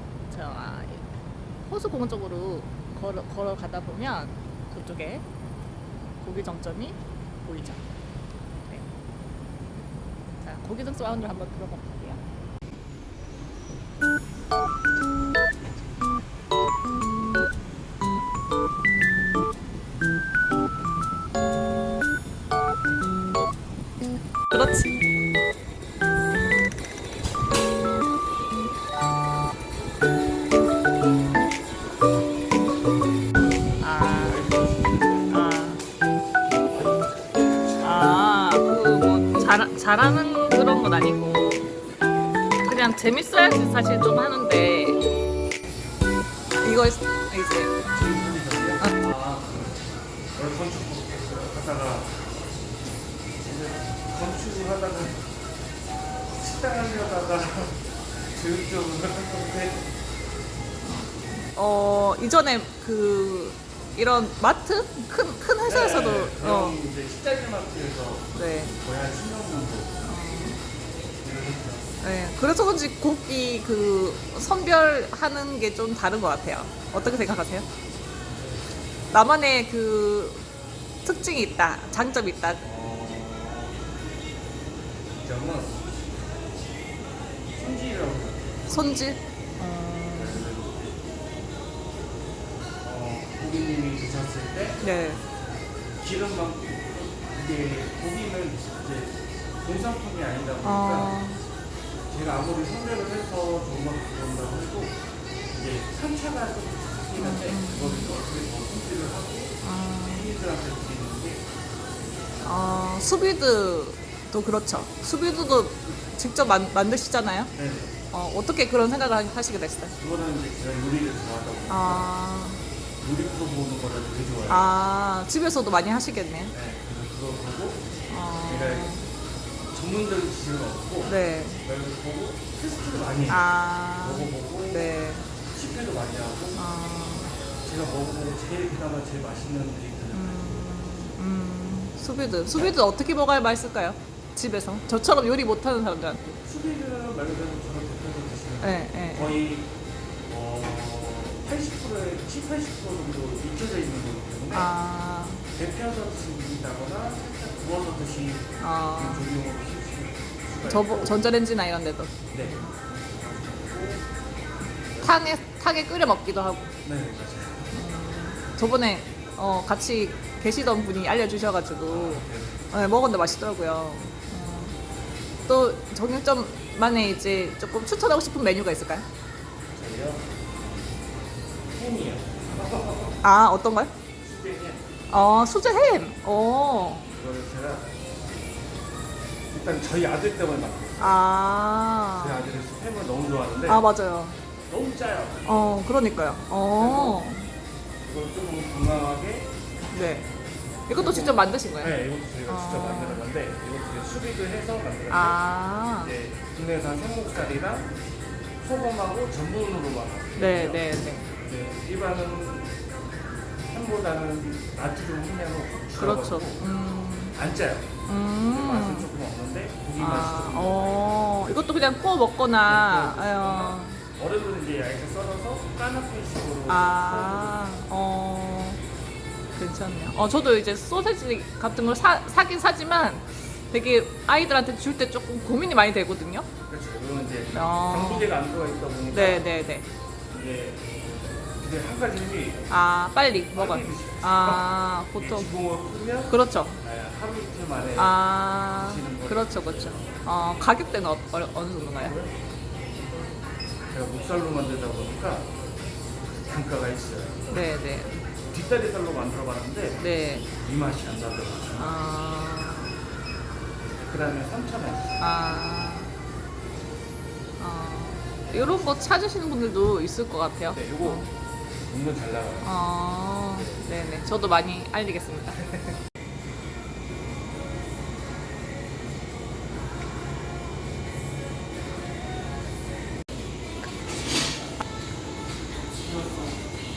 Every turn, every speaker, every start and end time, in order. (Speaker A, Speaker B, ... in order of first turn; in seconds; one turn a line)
Speaker A: 0.3-5.2
Speaker A: 6.2-7.9
Speaker A: 8.6-8.9
Speaker A: 10.4-12.2
Speaker A: 24.5-24.9
Speaker A: 33.8-34.5
Speaker B: 34.1-35.4
Speaker A: 35.3-35.8
Speaker B: 36.6-38.1
Speaker A: 37.8-41.7
Speaker A: 42.6-45.0
Speaker A: 46.6-47.7
Speaker B: 47.9-49.8
Speaker B: 50.3-52.2
Speaker B: 53.4-55.3
Speaker B: 56.3-59.9
Speaker A: 60.8-66.8
Speaker B: 65.6-70.0
Speaker A: 68.3-68.8
Speaker A: 70.0-70.6
Speaker B: 71.2-71.9
Speaker A: 72.0-77.7
Speaker B: 78.3-78.7
Speaker A: 79.1-80.4
Speaker A: 81.0-82.6
Speaker B: 82.6-83.8
Speaker B: 85.1-85.8
Speaker B: 87.5-88.6
Speaker A: 88.7-90.5
Speaker B: 90.1-91.0
Speaker B: 92.8-94.8
Speaker A: 94.8-95.2
Speaker B: 96.0-101.2
Speaker A: 100.6-101.4
Speaker B: 102.1-111.5
Speaker A: 107.2-108.1
Speaker A: 109.6-110.3
Speaker A: 112.4-117.5
Speaker B: 117.5-117.9
Speaker A: 118.1-119.9
Speaker B: 120.0-122.1
Speaker A: 121.7-122.6
Speaker B: 123.0-124.7
Speaker A: 124.5-126.5
Speaker B: 126.5-127.9
Speaker A: 128.1-129.1
Speaker B: 128.4-128.9
Speaker B: 129.7-133.5
Speaker A: 131.1-131.6
Speaker A: 133.3-135.3
Speaker B: 134.0-134.9
Speaker B: 135.5-136.6
Speaker A: 136.5-137.3
Speaker B: 137.6-140.7
Speaker A: 140.1-146.4
Speaker B: 146.4-149.7
Speaker A: 148.6-149.3
Speaker B: 150.2-154.7
Speaker A: 154.5-155.4
Speaker B: 155.5-161.2
Speaker A: 158.6-159.3
Speaker A: 160.6-162.7
Speaker B: 162.3-164.1
Speaker B: 164.8-165.4
Speaker A: 165.0-166.7
Speaker B: 166.8-167.7
Speaker A: 167.7-174.7
Speaker B: 171.8-172.6
Speaker A: 175.5-179.1
Speaker B: 179.7-180.3
Speaker B: 181.7-183.2
Speaker A: 183.2-183.9
Speaker B: 184.2-184.9
Speaker A: 185.1-187.1
Speaker B: 187.1-187.9
Speaker B: 189.5-191.2
Speaker A: 191.0-192.5
Speaker B: 192.1-193.9
Speaker A: 193.7-194.4
Speaker B: 194.7-195.8
Speaker A: 195.4-197.5
Speaker B: 196.7-197.2
Speaker B: 198.0-199.5
Speaker A: 199.9-200.3
Speaker A: 200.9-201.9
Speaker B: 200.9-205.4
Speaker A: 202.5-203.2
Speaker A: 205.1-206.1
Speaker B: 206.0-207.9
Speaker B: 208.6-210.9
Speaker A: 210.3-211.3
Speaker B: 211.4-212.7
Speaker B: 213.7-216.7
Speaker A: 216.0-217.3
Speaker B: 217.3-217.9
Speaker A: 218.1-219.1
Speaker B: 218.5-221.6
Speaker A: 220.0-224.0
Speaker B: 222.6-227.7
Speaker A: 226.7-228.8
Speaker A: 229.5-236.5
Speaker B: 236.7-239.5
Speaker A: 237.5-238.3
Speaker A: 239.1-239.9
Speaker B: 240.3-240.8
Speaker B: 241.6-242.7
Speaker A: 242.7-245.5
Speaker B: 243.5-248.2
Speaker A: 246.3-246.8
Speaker A: 248.0-252.2
Speaker B: 248.7-250.2
Speaker B: 251.9-252.3
Speaker B: 253.9-255.5
Speaker B: 256.4-257.5
Speaker A: 257.5-258.2
Speaker B: 258.5-261.9
Speaker A: 260.0-260.5
Speaker A: 261.8-262.9
Speaker B: 263.9-265.2
Speaker A: 265.2-266.1
Speaker A: 267.6-271.3
Speaker B: 268.5-269.0
Speaker B: 270.7-271.3
Speaker B: 271.9-272.7
Speaker A: 272.6-276.0
Speaker B: 273.5-273.9
Speaker B: 286.0-286.7